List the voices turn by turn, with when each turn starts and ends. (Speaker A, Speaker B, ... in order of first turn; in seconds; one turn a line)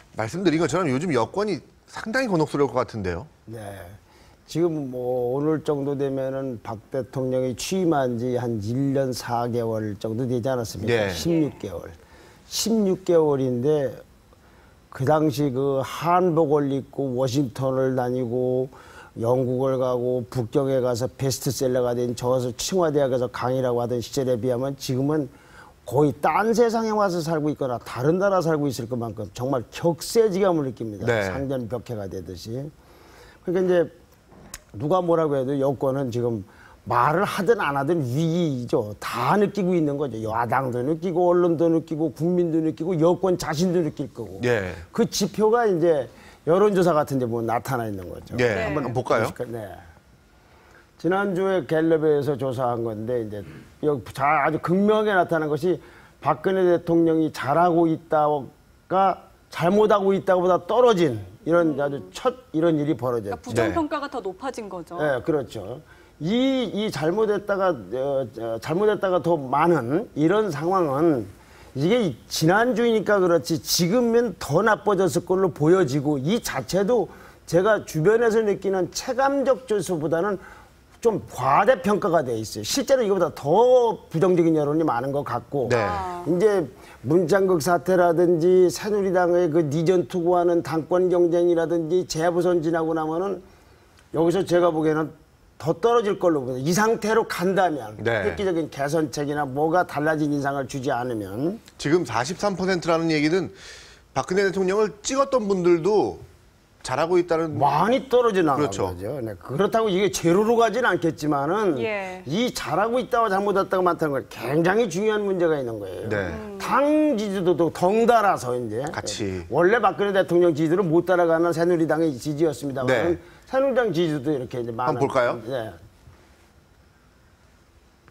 Speaker A: 0.1-3.3
Speaker B: 3.5-12.0
Speaker A: 10.8-11.3
Speaker B: 12.5-14.0
Speaker B: 14.9-25.3
Speaker B: 25.9-32.7
Speaker A: 31.0-31.4
Speaker B: 33.4-33.9
Speaker B: 34.7-49.8
Speaker A: 44.4-44.8
Speaker A: 48.3-49.4
Speaker C: 48.5-49.0
Speaker B: 51.0-63.8
Speaker C: 61.6-62.0
Speaker C: 63.3-65.2
Speaker A: 63.5-63.8
Speaker B: 65.0-80.4
Speaker B: 81.0-93.4
Speaker A: 85.7-86.1
Speaker C: 85.7-86.3
Speaker B: 94.1-101.6
Speaker A: 98.0-98.4
Speaker A: 101.8-103.6
Speaker A: 104.1-106.2
Speaker A: 106.8-107.8
Speaker B: 107.5-125.8
Speaker A: 108.5-109.0
Speaker C: 111.7-112.3
Speaker A: 116.0-116.5
Speaker C: 116.2-116.8
Speaker A: 118.9-119.5
Speaker A: 122.8-123.2
Speaker A: 124.8-125.4